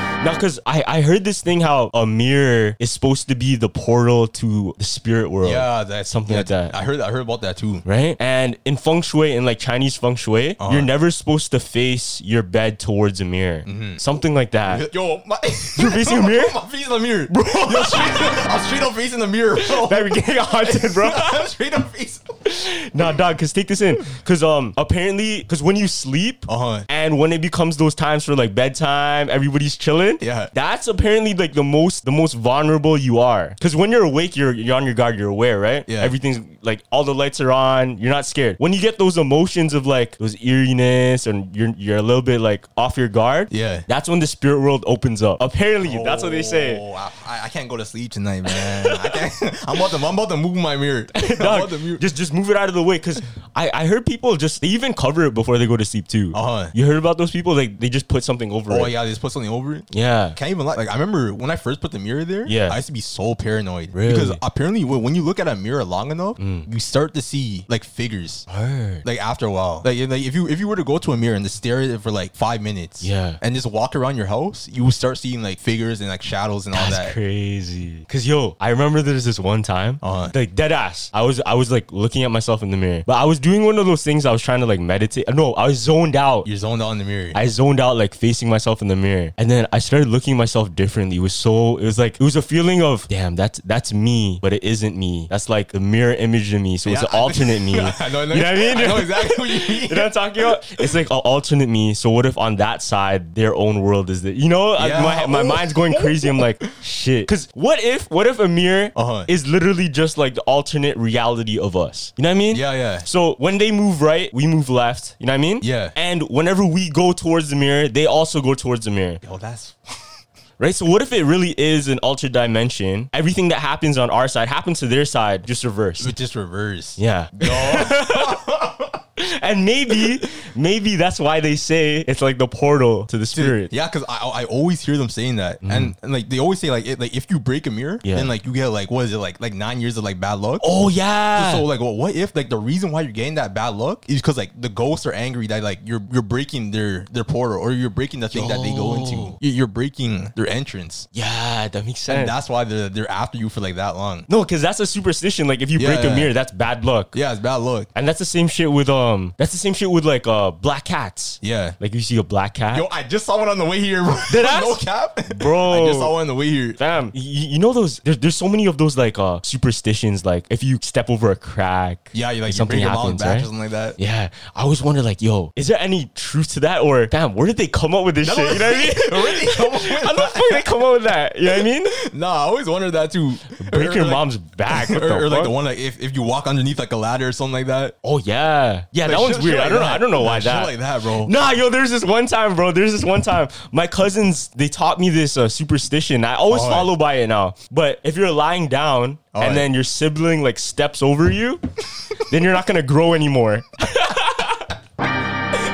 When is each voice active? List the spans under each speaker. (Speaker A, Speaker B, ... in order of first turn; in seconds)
Speaker A: 0.2-6.7, 7.8-14.9, 15.8-16.6, 17.3-18.4, 19.6-21.5, 22.4-46.8, 48.5-49.2, 51.1-58.9, 59.9-60.4, 62.5-62.8, 63.9-64.4, 66.4-66.7, 68.5-69.0, 73.0-73.4, 76.7-86.5, 87.3-119.2, 120.6-126.1, 127.0-128.4, 129.2-133.7, 135.6-135.9, 138.0-138.3, 140.6-141.7, 148.3-149.3, 151.1-152.3, 154.3-157.2, 157.9-162.9, 164.3-166.2, 166.8-182.0, 183.5-185.5, 188.0-201.6, 202.2-204.7
Speaker B: 5.4-7.8, 10.6-10.9, 13.7-14.0, 14.7-22.3, 26.5-26.9, 30.2-30.5, 35.9-36.1, 43.5-43.8, 45.8-52.0, 56.3-56.7, 58.7-68.5, 69.0-77.2, 80.0-80.3, 86.4-87.4, 96.8-100.9, 104.8-106.6, 108.9-109.3, 112.5-113.1, 115.6-115.9, 119.2-120.1, 126.0-129.0, 129.9-130.2, 133.3-140.6, 141.3-151.1, 152.1-154.3, 155.7-156.3, 157.1-157.9, 161.4-161.8, 162.7-166.8, 172.1-174.0, 178.2-180.7, 181.4-187.9, 189.0-191.3, 196.5-196.9, 199.3-199.7